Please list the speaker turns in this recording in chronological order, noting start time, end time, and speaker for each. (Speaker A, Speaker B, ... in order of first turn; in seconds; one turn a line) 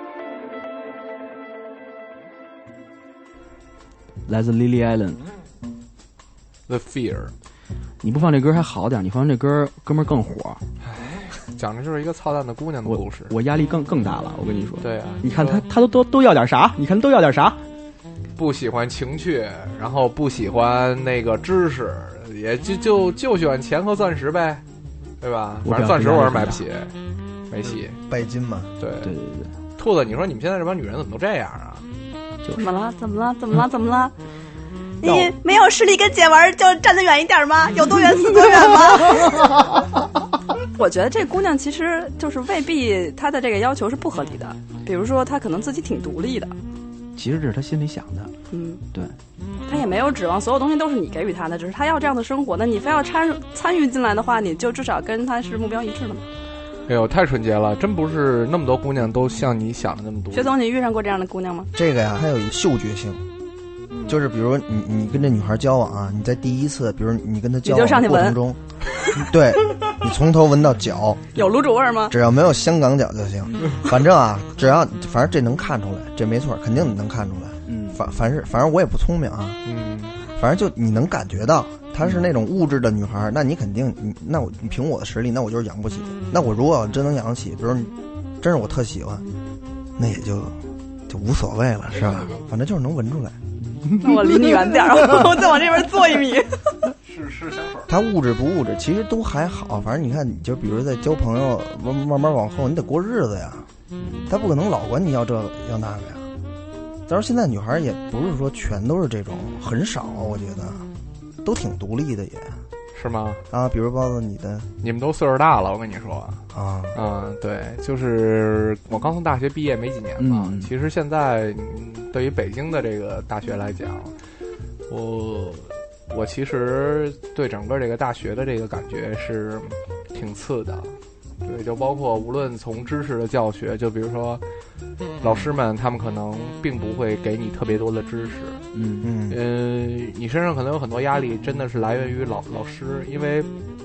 Speaker A: 4.3-5.2
Speaker B: 6.7-7.3
Speaker A: 8.0-10.6
Speaker B: 10.9-13.3
Speaker A: 12.8-17.6
Speaker B: 14.8-15.6
Speaker B: 18.4-24.6
Speaker B: 25.2-26.9
Speaker A: 25.6-26.6
Speaker B: 27.5-28.0
Speaker C: 27.7-28.7
Speaker B: 28.8-29.1
Speaker A: 29.0-29.5
Speaker B: 29.8-31.8
Speaker D: 32.6-34.1
Speaker D: 35.0-39.5
Speaker A: 35.0-35.3
Speaker D: 40.8-46.5
Speaker A: 47.2-48.3
Speaker D: 48.5-48.8
Speaker D: 49.7-56.3
Speaker B: 56.9-60.5
Speaker D: 60.3-61.7
Speaker C: 61.8-63.2
Speaker C: 64.1-68.6
Speaker D: 67.6-68.4
Speaker C: 69.2-71.3
Speaker D: 71.3-72.1
Speaker C: 72.1-79.6
Speaker A: 77.7-78.0
Speaker B: 79.7-80.2
Speaker C: 80.3-89.2
Speaker C: 90.0-90.5
Speaker C: 91.1-93.4
Speaker A: 93.7-94.1
Speaker D: 94.0-96.5
Speaker B: 97.1-97.9
Speaker C: 97.9-103.7
Speaker C: 104.3-106.3
Speaker C: 107.1-110.9
Speaker C: 111.4-112.6
Speaker B: 113.0-113.4
Speaker C: 113.5-114.7
Speaker B: 114.8-124.1
Speaker C: 116.5-117.0
Speaker A: 120.2-120.7
Speaker B: 124.9-134.4
Speaker B: 135.2-138.7
Speaker A: 138.7-139.1
Speaker C: 139.0-139.4
Speaker B: 139.3-143.5